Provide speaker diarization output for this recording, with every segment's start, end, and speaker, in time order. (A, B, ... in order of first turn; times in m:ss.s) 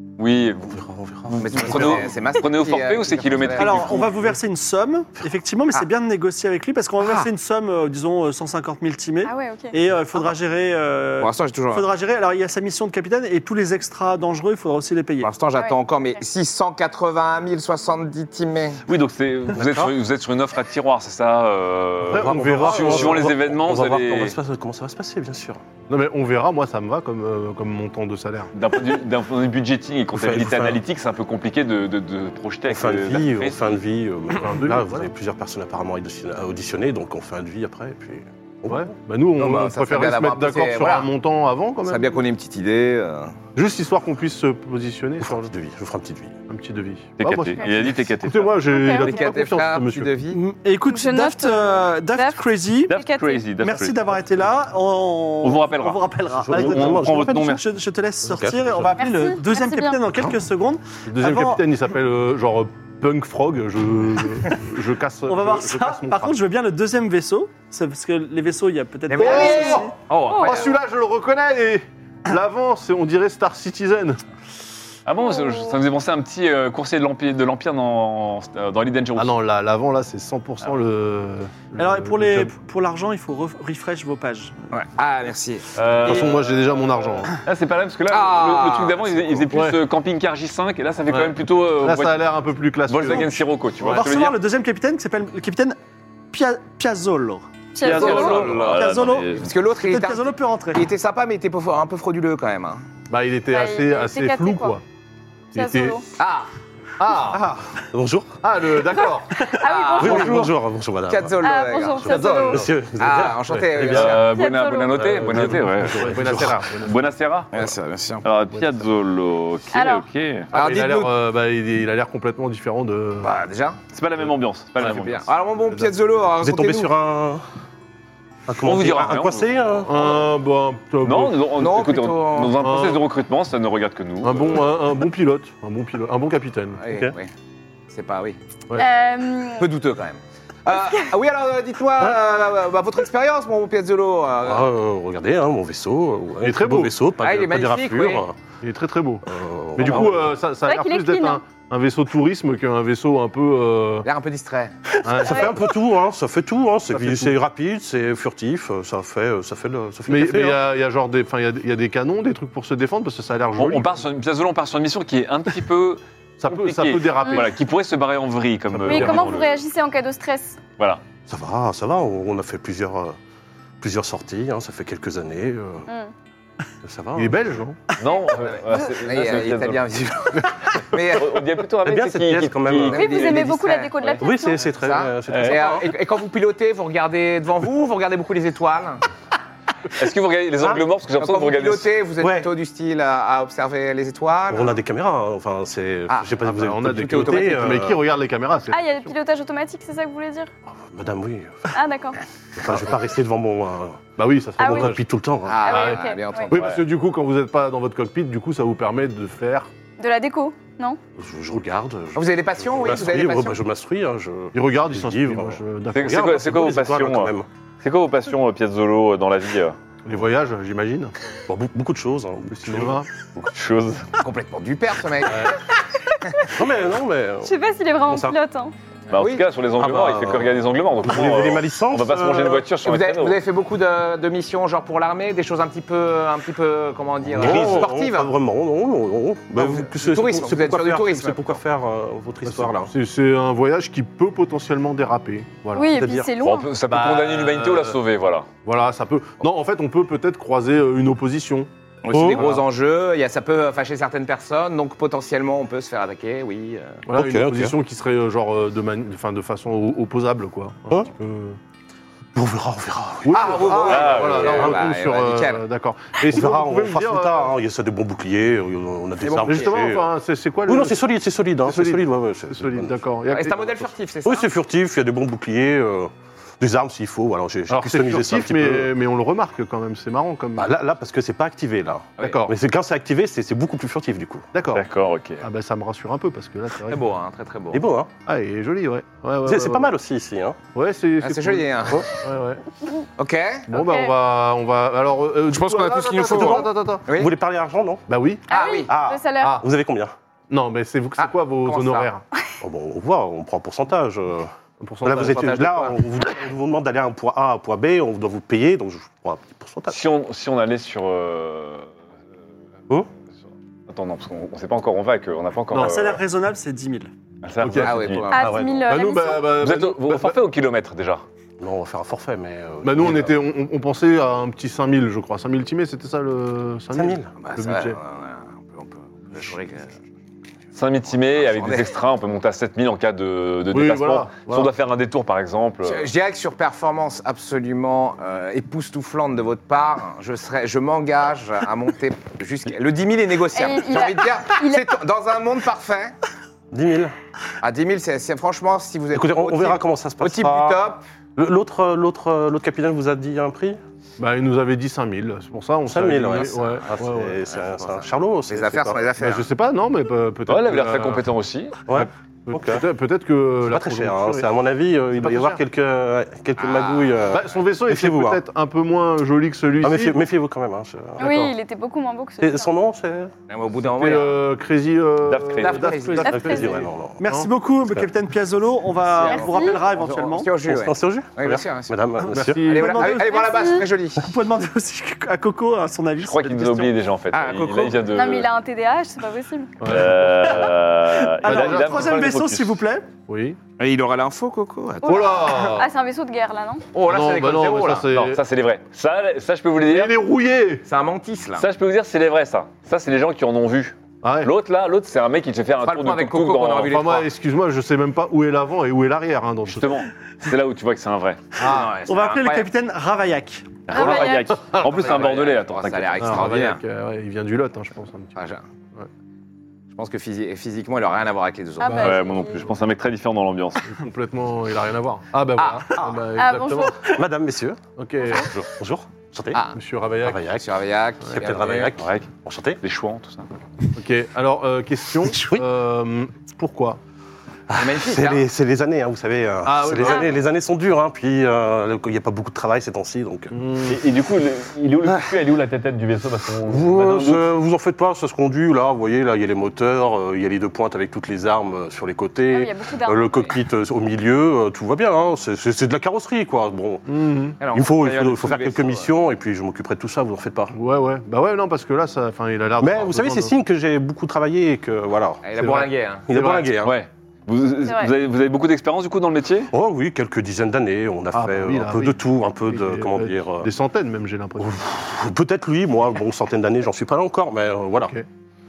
0:00.2-0:04.1 A
0:00.6-0:02.1 B
0:01.3-0:04.1 C
0:03.6-0:15.3 D
0:07.0-0:07.2 C
0:09.2-0:09.7 E
0:11.2-0:11.9 C
0:15.2-0:18.8 C
0:15.6-0:16.2 E
0:18.9-0:24.4 A
0:19.5-0:19.9 B
0:22.1-0:23.3 F
0:22.1-0:25.6 B
0:25.9-0:28.5 F
0:28.5-0:33.6 A
0:30.1-0:30.8 B
0:32.7-0:38.9 B
0:34.3-0:35.1 F
0:38.7-0:42.2 F
0:39.4-0:41.1 C
0:41.8-0:43.4 C
0:43.5-0:45.5 F
0:45.2-0:46.4 B
0:46.5-0:50.1 F
0:47.2-0:48.6 A
0:47.6-0:47.8 E
0:48.6-0:49.2 E
0:49.0-0:50.4 C
0:50.3-0:52.9 D
0:50.9-0:53.4 E
0:52.9-0:54.2 A
0:53.6-1:01.6 D
0:55.4-0:57.6 A
0:56.3-0:57.5 B
0:58.2-0:58.9 B
0:59.0-1:00.0 E
1:01.0-1:06.3 F
1:05.3-1:09.9 D
1:09.1-1:10.7 C
1:09.2-1:14.2 F
1:09.2-1:09.8 E
1:10.3-1:10.6 E
1:15.0-1:19.3 A
1:15.3-1:15.7 E
1:19.2-1:22.5 F
1:21.8-1:24.6 D
1:24.7-1:25.7 C
1:25.7-1:32.3 A
1:26.0-1:27.3 F
1:28.1-1:29.3 C
1:29.5-1:29.8 F
1:31.8-1:33.4 F
1:32.9-1:34.4 A
1:33.8-1:35.8 D
1:36.3-1:40.8 D
1:37.7-1:38.5 E
1:37.8-1:39.5 A
1:39.3-1:42.8 C
1:43.1-1:44.8 F
1:43.5-1:44.8 E
1:45.5-1:46.0 F
1:45.5-1:46.0 E
1:46.2-1:46.5 C
1:47.0-1:47.6 F
1:47.3-1:48.4 B
1:48.4-1:49.4 F
1:49.5-1:50.4 E
1:49.6-1:50.5 C
1:50.0-1:51.4 B
1:51.1-1:54.3 C
1:51.4-1:52.6 E
1:52.0-1:52.8 F
1:52.5-1:54.0 B
1:53.8-1:57.5 A
1:54.3-1:55.1 E
1:55.0-1:56.6 B
1:55.2-1:56.9 F
1:57.5-1:58.2 C
1:58.2-2:00.5 A
1:59.7-2:00.0 E
2:00.5-2:01.1 C
2:00.5-2:03.3 F
2:03.2-2:03.8 C
2:03.9-2:05.3 A
2:04.8-2:06.9 C
2:06.4-2:07.4 B
2:08.5-2:10.2 B
2:08.6-2:09.5 A
2:09.8-2:11.5 F
2:11.0-2:14.7 A
2:11.6-2:12.6 C
2:12.6-2:13.0 F
2:14.2-2:16.8 F
2:16.8-2:17.3 C
2:17.9-2:18.4 C
2:18.8-2:19.7 E
2:19.6-2:24.7 C
2:24.4-2:28.4 B
2:26.4-2:27.0 F
2:27.2-2:28.3 C
2:28.6-2:29.2 F
2:29.2-2:30.4 B
2:29.8-2:34.1 F
2:30.6-2:31.4 E
2:34.0-2:34.8 C
2:35.0-2:35.6 F
2:35.1-2:40.6 B
2:36.9-2:37.3 F
2:40.1-2:44.0 F
2:43.6-2:49.5 A
2:46.4-2:47.5 F
2:47.2-2:47.5 E
2:48.8-2:49.3 B
2:48.8-2:49.4 F
2:48.9-2:50.6 E
2:51.3-2:53.2 B
2:53.8-2:55.9 B
2:55.9-2:56.1 E
2:56.8-2:57.4 B
2:57.1-2:57.8 F
2:58.0-2:59.9 A
2:58.7-3:01.4 C
3:01.1-3:03.4 A
3:01.8-3:03.3 B
3:02.7-3:09.0 C
3:02.9-3:04.6 E
3:04.2-3:05.8 B
3:05.3-3:05.8 A
3:10.0-3:11.9 A
3:10.6-3:10.8 B
3:11.2-3:14.8 C
3:12.2-3:12.5 B
3:14.5-3:18.0 B
3:16.1-3:17.8 C
3:16.4-3:19.1 F
3:18.7-3:20.5 E
3:20.6-3:21.7 B
3:21.7-3:22.2 E
3:22.6-3:25.7 B
3:24.2-3:25.0 F
3:24.6-3:25.0 E
3:25.4-3:26.7 C
3:25.6-3:26.5 E
3:25.6-3:29.7 F
3:26.5-3:26.8 A
3:30.0-3:31.0 E
3:31.2-3:37.4 B
3:32.1-3:33.6 C
3:34.5-3:36.2 F
3:35.9-3:39.8 A
3:40.0-3:41.1 F
3:41.5-3:43.0 B
3:42.6-3:43.1 F
3:43.3-3:44.1 A
3:44.2-3:45.6 C
3:45.3-3:45.6 F
3:46.6-3:47.6 B
3:47.4-3:48.7 E
3:48.1-3:48.4 B
3:49.1-3:53.4 A
3:49.1-3:49.4 C
3:49.8-3:52.7 B
3:52.8-3:58.3 C
3:57.3-4:02.9 B
3:59.5-4:01.6 C
4:02.4-4:06.0 F
4:05.7-4:06.7 E
4:05.9-4:06.3 B
4:06.4-4:08.5 A
4:06.9-4:08.0 F
4:08.6-4:11.7 F
4:12.0-4:17.0 C
4:12.1-4:12.5 B
4:17.0-4:21.6 F
4:17.1-4:17.8 B
4:22.3-4:23.8 B
4:23.2-4:27.5 F
4:23.3-4:25.6 C
4:23.8-4:24.8 A
4:26.2-4:30.1 B
4:29.2-4:29.8 C
4:29.4-4:31.0 F
4:30.7-4:33.0 B
4:31.6-4:33.9 F
4:33.3-4:34.5 C
4:34.2-4:38.9 B
4:37.7-4:40.7 F
4:40.6-4:44.5 B
4:42.2-4:42.5 F
4:44.5-4:44.8 F
4:44.7-4:45.4 A
4:45.4-4:47.0 F
4:46.9-4:47.8 C
4:47.7-4:48.1 B
4:48.2-4:49.9 F
4:49.4-4:50.6 B
4:50.7-4:52.6 F
4:51.2-4:52.1 C
4:53.2-4:53.7 C
4:53.7-4:57.0 F
4:53.7-4:54.1 E
4:55.5-4:57.3 C
4:56.3-4:58.0 B
4:58.1-4:58.4 F
4:58.5-4:58.9 C
4:58.5-4:59.6 E
4:58.9-5:00.1 B
4:59.3-4:59.7 F
5:00.5-5:02.2 F
5:01.2-5:02.1 C
5:02.6-5:04.5 B
5:04.8-5:05.9 F
5:05.0-5:10.0 B
5:05.2-5:05.9 C
5:09.9-5:11.9 A
5:13.9-5:16.2 A
5:15.8-5:17.1 D
5:17.4-5:18.2 A
5:17.6-5:20.4 F
5:17.8-5:18.7 C
5:18.3-5:19.6 E
5:18.4-5:18.8 B
5:19.6-5:21.2 A
5:21.6-5:23.3 B
5:22.8-5:28.0 F
5:26.9-5:27.4 B
5:27.4-5:29.9 C
5:30.7-5:36.1 A
5:31.1-5:31.9 C
5:33.7-5:34.7 F
5:35.8-5:46.1 C
5:43.5-5:44.9 E
5:46.7-5:47.1 B
5:47.6-5:51.0 C
5:49.1-5:50.8 B
5:51.4-5:53.8 B
5:54.2-5:57.4 F
5:55.9-5:59.1 B
5:56.4-5:56.7 C
5:57.8-5:59.5 C
5:59.2-6:01.2 F
6:00.5-6:01.9 A
6:01.9-6:02.8 B
6:01.9-6:04.5 F
6:03.6-6:08.4 B
6:05.1-6:05.6 F
6:06.6-6:07.2 C
6:07.3-6:10.2 F
6:09.8-6:11.4 B
6:11.2-6:12.7 E
6:11.2-6:11.5 F
6:12.4-6:13.3 B
6:13.5-6:14.4 C
6:13.9-6:17.5 F
6:15.2-6:16.0 A
6:15.6-6:16.5 C
6:16.2-6:16.8 E
6:16.2-6:17.2 B
6:17.2-6:20.5 D
6:19.0-6:22.0 C
6:19.2-6:19.8 E
6:20.6-6:22.7 B
6:22.3-6:23.1 F
6:22.6-6:24.3 C
6:22.7-6:27.0 D
6:23.3-6:23.8 E
6:26.2-6:28.5 A
6:27.3-6:28.0 C
6:28.1-6:29.7 E
6:29.8-6:30.7 F
6:29.8-6:32.8 A
6:31.4-6:33.1 D
6:31.4-6:32.1 F
6:33.3-6:33.6 F
6:33.8-6:35.8 C
6:35.0-6:35.9 F
6:35.0-6:36.8 E
6:36.9-6:38.1 C
6:37.1-6:38.4 F
6:38.1-6:40.2 A
6:39.8-6:40.8 F
6:40.8-6:41.7 C
6:41.6-6:46.9 A
6:44.2-6:44.5 F
6:45.8-6:47.3 C
6:46.9-6:50.0 F
6:49.7-6:51.5 A
6:51.6-6:52.0 F
6:51.6-6:52.7 C
6:52.0-6:53.8 D
6:53.9-6:56.4 A
6:53.9-6:54.5 E
6:54.8-6:56.8 C
6:56.2-6:58.4 F
6:58.4-6:58.6 C
6:59.9-7:02.2 C
7:01.8-7:02.6 E
7:02.0-7:03.9 A
7:03.8-7:07.1 F
7:05.6-7:06.0 C
7:06.4-7:07.0 E
7:07.0-7:07.8 B
7:08.0-7:08.6 F
7:08.2-7:08.5 E
7:08.6-7:09.6 B
7:09.7-7:10.4 F
7:10.2-7:10.7 B
7:10.5-7:11.9 C
7:11.3-7:12.8 B
7:12.0-7:12.3 A
7:12.8-7:13.5 A
7:14.0-7:17.0 F
7:15.2-7:15.6 B
7:17.7-7:23.6 B
7:17.7-7:18.4 C
7:19.6-7:20.4 F
7:23.5-7:24.0 F
7:23.8-7:27.5 A
7:26.6-7:37.1 B
7:32.5-7:33.4 E
7:33.3-7:33.6 C
7:37.1-7:37.6 F
7:37.6-7:39.1 C
7:37.7-7:40.8 B
7:40.7-7:43.5 F
7:42.8-7:45.5 B
7:45.4-7:46.2 C
7:45.6-7:46.7 F
7:46.3-7:47.0 B
7:46.8-7:49.7 A
7:47.8-7:48.1 E
7:49.7-7:53.7 B
7:51.3-7:54.8 F
7:54.6-7:58.1 B
7:58.0-7:58.2 F